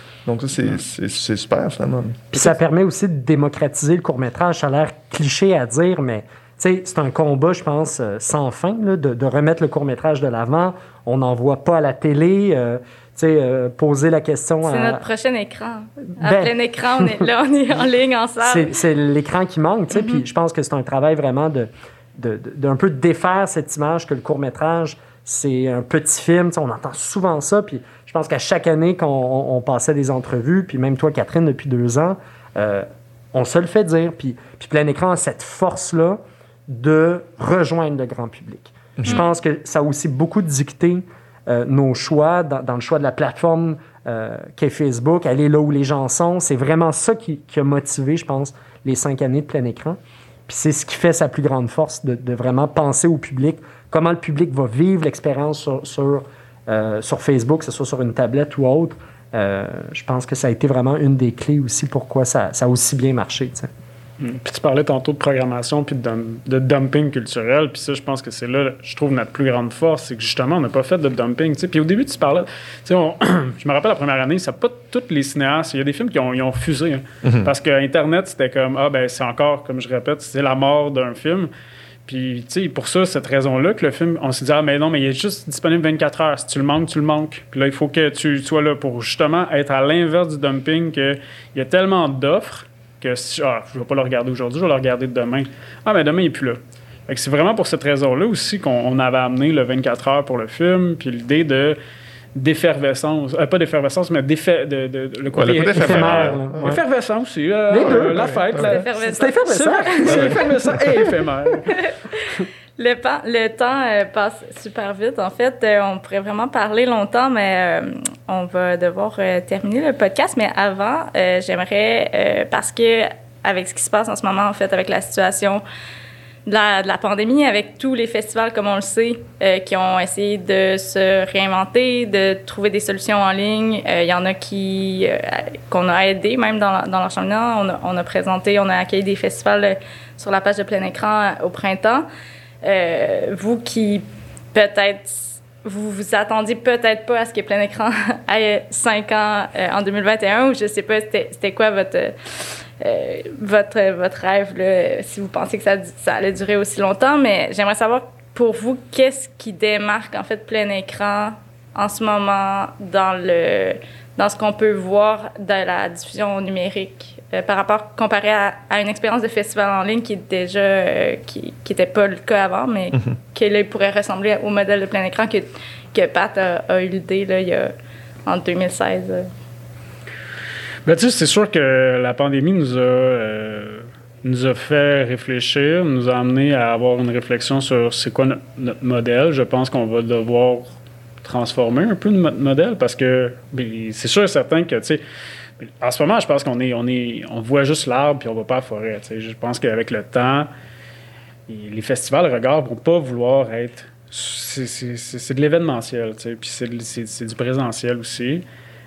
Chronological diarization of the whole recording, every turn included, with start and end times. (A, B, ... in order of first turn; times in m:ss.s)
0:00.2-0:02.5 A
0:02.3-0:15.0 B
0:14.6-0:18.7 C
0:16.2-0:17.2 B
0:18.4-1:03.7 B
1:04.2-1:21.5 D
1:17.2-1:17.5 A
1:22.1-1:41.8 D
1:42.3-1:48.8 D
1:45.3-1:46.8 A
1:45.8-1:46.8 B
1:47.7-1:51.1 B
1:47.8-1:48.4 A
1:48.6-1:50.4 C
1:49.4-1:51.7 D
1:51.7-1:52.2 C
1:52.8-2:05.6 C
2:06.4-2:22.1 C
2:22.6-2:57.7 C
2:58.2-2:59.3 C
3:00.8-3:15.0 D
3:15.6-3:20.5 D
3:21.5-3:28.4 D